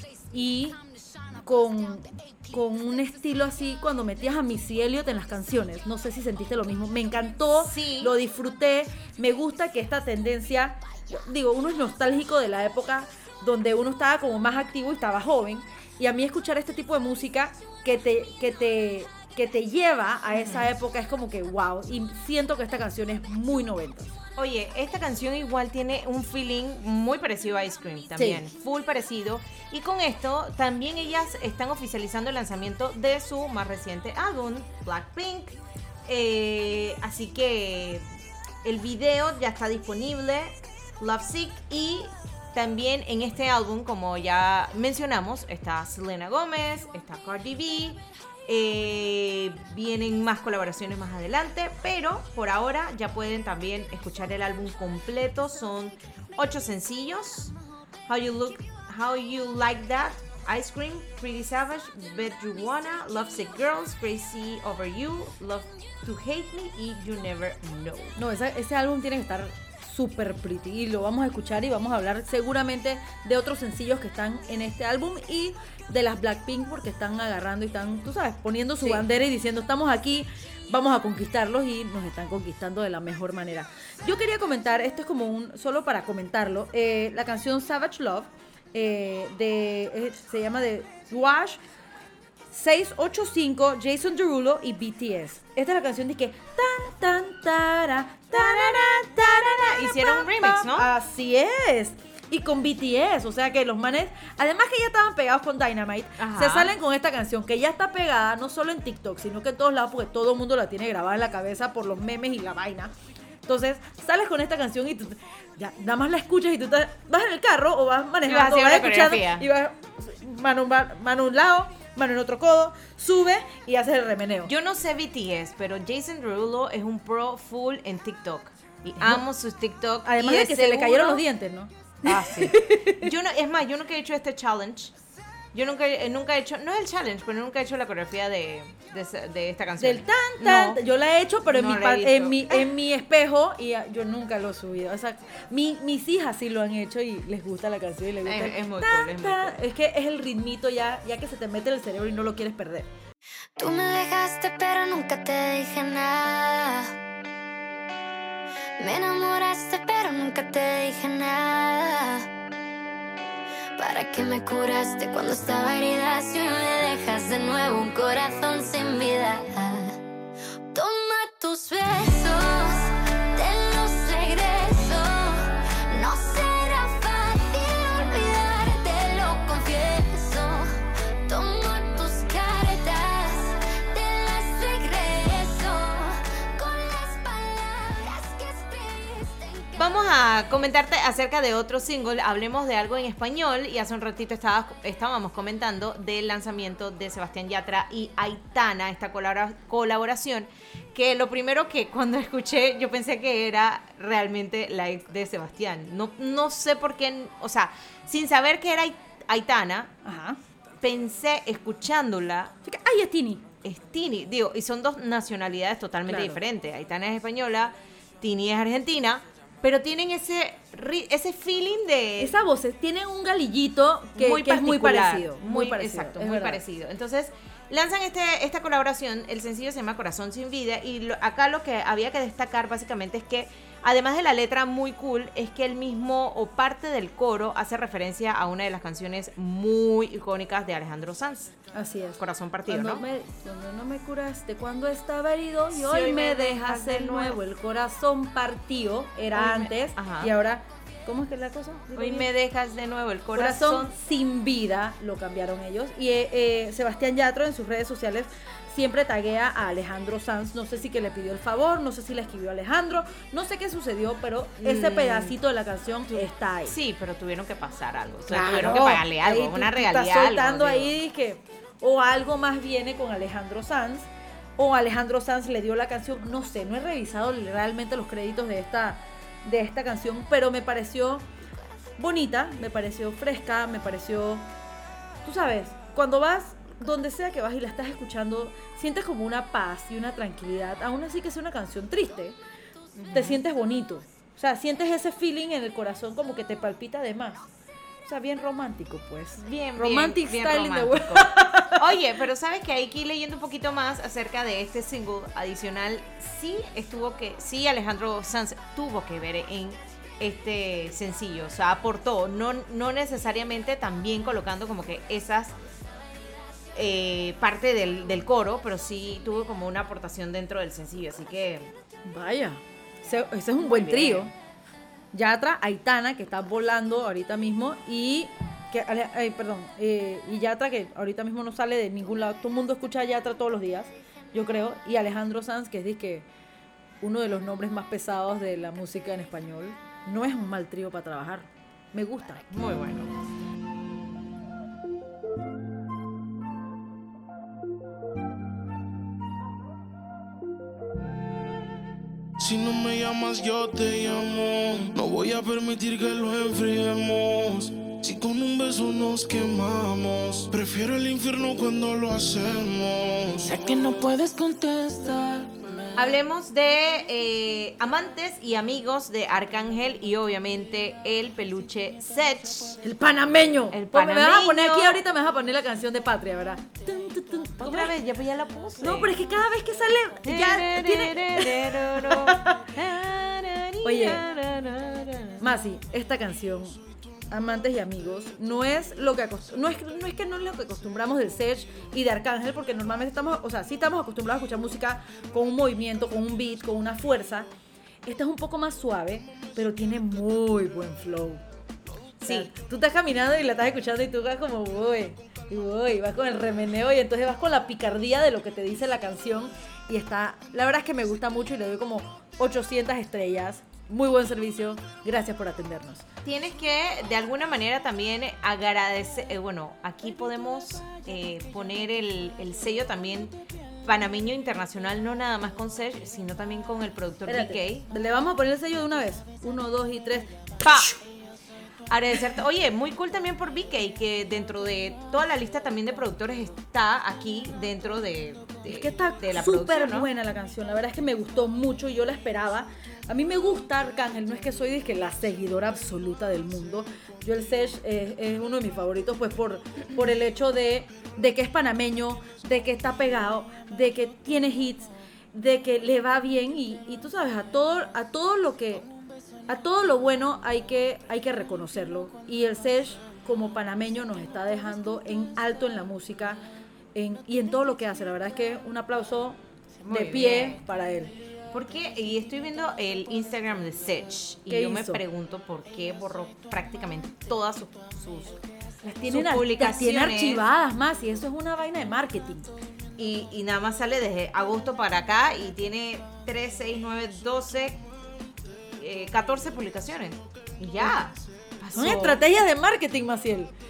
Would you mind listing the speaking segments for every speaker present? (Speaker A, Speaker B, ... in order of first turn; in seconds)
Speaker A: 0.3-0.8, 1.4-24.1, 28.2-28.4, 68.2-91.6, 92.5-112.9, 113.5-124.5, 129.0-129.2, 130.0-133.1, 139.8-152.9, 210.0-210.4, 212.6-213.4, 216.1-216.4, 222.2-226.6, 241.7-252.3, 253.3-266.7, 268.3-281.2, 282.0-284.4, 285.2-292.4, 293.1-297.4, 298.0-301.9, 322.0-324.3, 325.1-336.2, 337.0-342.4, 372.8-377.9, 378.8-382.6, 383.8-384.2, 385.4-386.8, 387.3-397.5, 398.0-401.4, 402.3-416.0, 427.2-431.0, 438.7-458.9, 459.5-466.4, 466.9-471.1, 474.5-475.0, 478.8-482.5, 491.7-493.5
Speaker B: 7.6-8.1, 20.3-20.7, 24.4-38.0, 38.6-57.5, 58.1-68.2, 98.3-100.9, 106.2-106.7, 118.2-119.5, 124.4-131.2, 132.0-134.9, 135.5-140.8, 141.5-142.7, 148.2-149.6, 189.8-209.9, 210.8-212.5, 213.6-222.3, 224.1-241.5, 242.2-243.0, 245.7-247.4, 249.3-250.3, 251.9-253.9, 264.6-265.4, 266.1-270.9, 292.9-293.4, 299.4-315.5, 316.7-321.7, 323.6-324.3, 342.5-343.1, 365.9-372.8, 373.7-375.0, 377.6-379.1, 380.2-385.4, 402.2-402.5, 416.2-427.9, 430.6-430.9, 431.9-440.1, 469.8-470.6, 471.5-478.4, 479.1-480.4, 483.0-487.8, 488.8-492.2
Speaker C: 153.6-156.9, 158.8-162.2, 163.8-169.9, 170.7-190.1
Speaker D: 352.4-363.6
Speaker E: 363.4-366.1